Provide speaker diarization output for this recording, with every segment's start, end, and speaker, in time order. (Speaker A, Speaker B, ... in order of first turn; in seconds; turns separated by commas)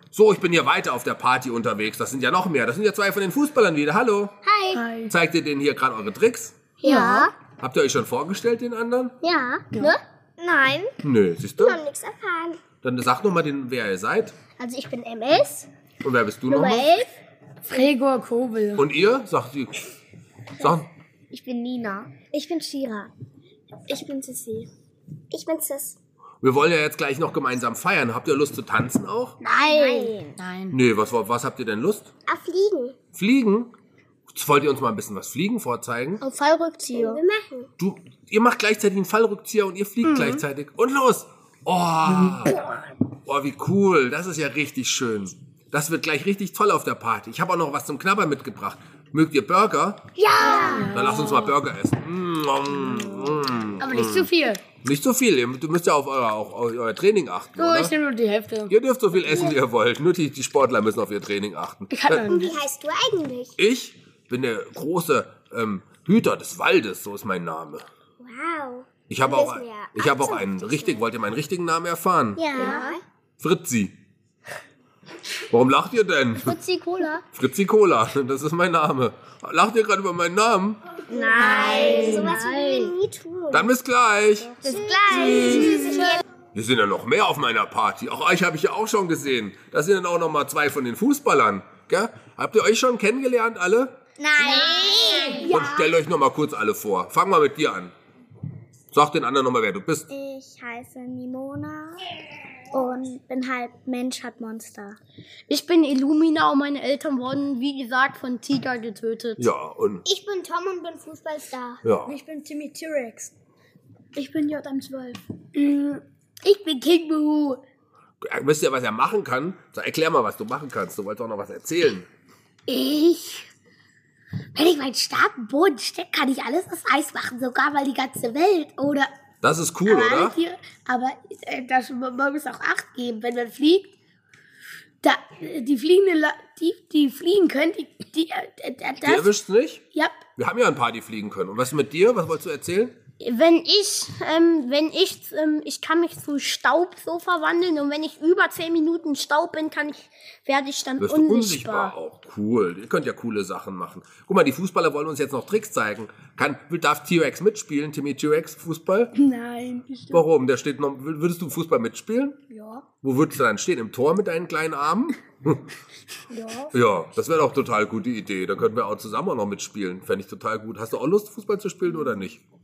Speaker A: 0.1-4.3, Speaker B: 4.4-4.8, Speaker C: 4.7-5.1, Speaker A: 5.1-6.6, Speaker C: 6.8-7.2, Speaker D: 6.8-7.3, Speaker A: 7.6-9.2, Speaker B: 9.2-10.0, Speaker A: 11.0-11.8, Speaker D: 11.6-12.6, Speaker A: 12.8-14.3, Speaker B: 14.6-15.7, Speaker A: 16.0-16.9, Speaker B: 16.5-17.1, Speaker C: 17.7-18.8, Speaker A: 18.7-19.9, Speaker A: 20.6-20.9, Speaker D: 25.3-25.9, Speaker A: 26.4-29.4, Speaker D: 29.6-30.2, Speaker C: 30.4-30.7, Speaker A: 30.7-32.1, Speaker D: 32.3-33.0, Speaker A: 33.1-33.7, Speaker A: 34.3-36.2, Speaker E: 36.3-37.2, Speaker D: 36.9-37.7, Speaker A: 37.8-42.6, Speaker A: 43.2-50.0, Speaker D: 50.2-50.9, Speaker C: 50.4-51.5, Speaker A: 50.9-54.3, Speaker C: 53.8-54.6, Speaker A: 54.8-57.9, Speaker C: 57.5-58.7, Speaker A: 58.7-62.4, Speaker C: 61.9-62.5, Speaker D: 62.2-63.5, Speaker A: 63.6-67.8, Speaker D: 68.2-71.0, Speaker A: 69.1-72.5, Speaker D: 72.4-73.0, Speaker E: 72.6-72.9, Speaker B: 72.6-72.9, Speaker A: 73.4-73.9, Speaker A: 75.5-76.5, Speaker E: 76.4-77.2, Speaker A: 77.3-80.8, Speaker D: 81.1-83.7, Speaker E: 81.2-82.9, Speaker C: 81.5-82.2, Speaker B: 81.7-82.3, Speaker A: 83.5-84.5, Speaker D: 84.6-86.2, Speaker E: 84.6-85.9, Speaker A: 86.5-94.0, Speaker D: 94.2-95.7, Speaker E: 94.6-95.4, Speaker A: 95.3-97.9, Speaker A: 98.9-100.1, Speaker E: 105.5-109.4, Speaker A: 109.4-110.0, Speaker D: 110.1-111.8, Speaker A: 111.8-112.1, Speaker C: 112.1-113.1, Speaker C: 114.8-117.6, Speaker A: 118.2-122.1, Speaker C: 122.7-123.5, Speaker C: 124.5-129.1, Speaker A: 129.4-130.4, Speaker C: 129.8-133.9, Speaker C: 135.0-139.3, Speaker A: 139.0-139.8, Speaker A: 140.4-142.9, Speaker E: 143.2-151.9, Speaker A: 151.0-159.1, Speaker C: 159.1-160.2, Speaker A: 160.1-162.4, Speaker C: 162.5-162.8, Speaker A: 163.0-165.7, Speaker C: 166.3-166.7, Speaker A: 166.7-172.4